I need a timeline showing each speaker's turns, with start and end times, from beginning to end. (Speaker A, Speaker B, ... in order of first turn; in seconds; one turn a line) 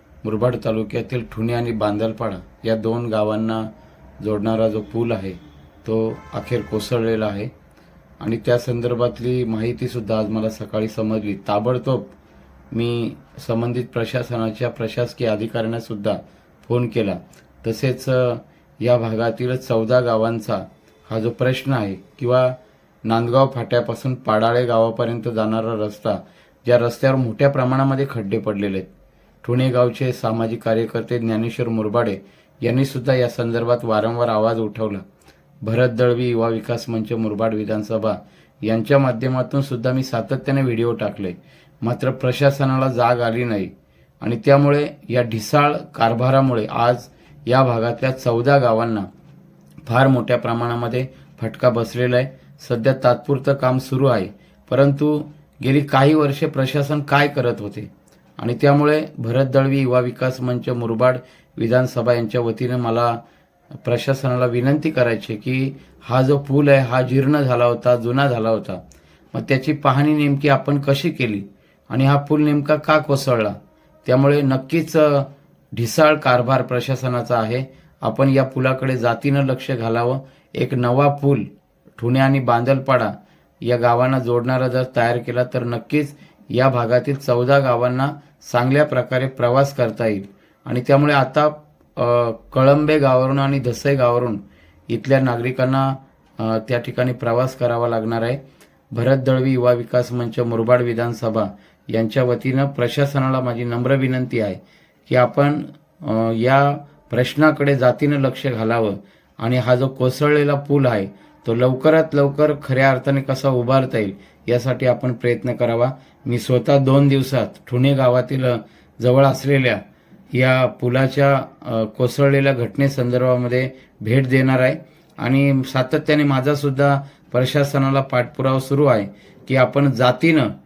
Speaker A: 0.2-7.5
Speaker A: 8.2-12.1
Speaker A: 12.7-28.9
Speaker A: 29.4-35.0
Speaker A: 35.6-49.1
Speaker A: 49.9-63.2
Speaker A: 63.8-68.8
Speaker A: 69.3-98.4
Speaker A: 98.9-119.8
Speaker A: 120.3-130.5